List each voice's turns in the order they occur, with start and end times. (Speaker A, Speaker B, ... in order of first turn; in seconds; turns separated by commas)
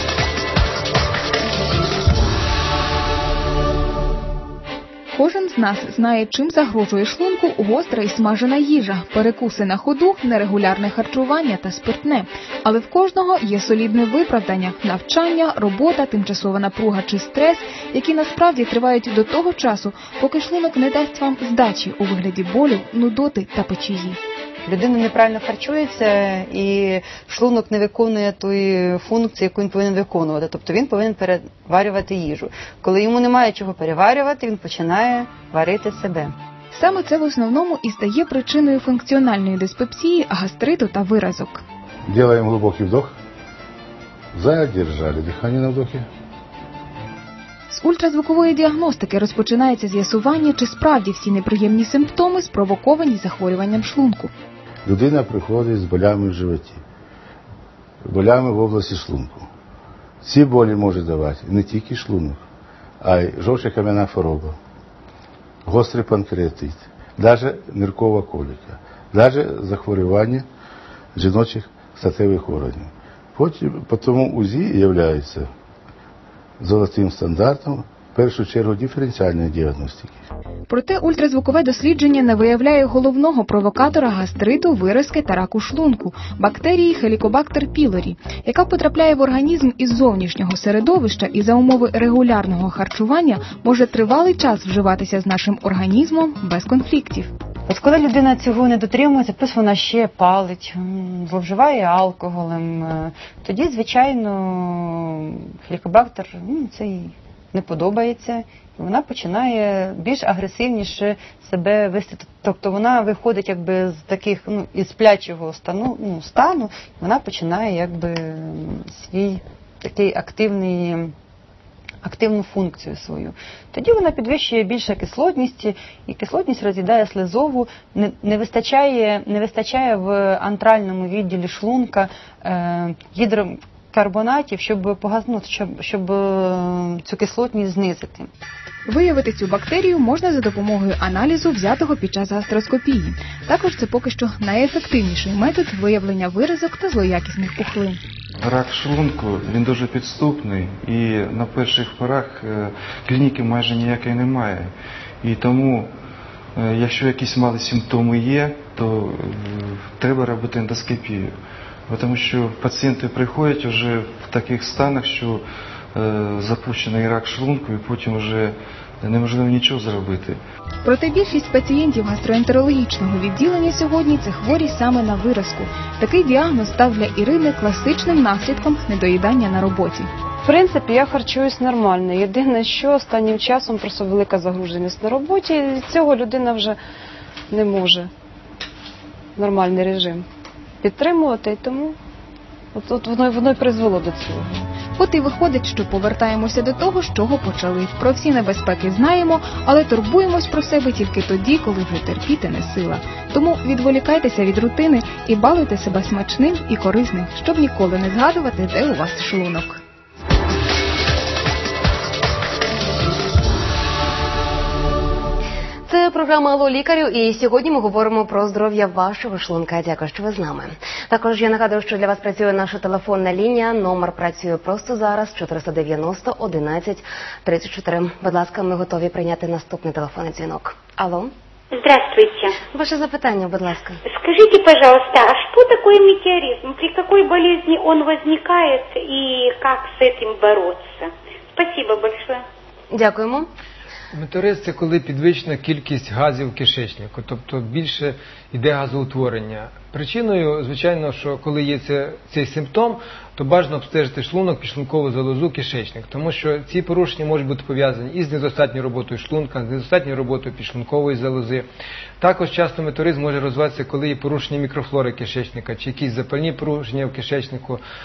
Speaker A: 5.1-24.2, Speaker B: 24.7-36.3, Speaker A: 36.7-41.6, Speaker C: 42.1-43.1, Speaker C: 44.3-46.1, Speaker A: 47.7-54.3, Speaker C: 54.9-56.8, Speaker C: 58.0-59.5, Speaker C: 60.2-62.4, Speaker C: 63.0-64.6, Speaker C: 65.7-70.5, Speaker C: 71.2-75.5, Speaker C: 76.6-80.2, Speaker A: 80.7-97.3, Speaker B: 97.7-121.1, Speaker B: 122.0-138.3, Speaker A: 138.9-148.0, Speaker D: 148.4-154.7, Speaker D: 155.2-155.9, Speaker D: 156.6-161.3, Speaker D: 161.9-165.4, Speaker D: 165.9-170.4, Speaker A: 170.8-180.1, Speaker E: 180.5-186.7, Speaker E: 187.5-188.1, Speaker E: 189.4-190.2, Speaker E: 190.8-191.9, Speaker E: 192.8-194.4, Speaker A: 195.0-209.8, Speaker F: 215.9-231.3, Speaker G: 231.7-232.6, Speaker F: 232.6-234.0, Speaker G: 234.1-242.4, Speaker F: 242.9-243.5, Speaker H: 244.1-261.7, Speaker H: 262.2-267.8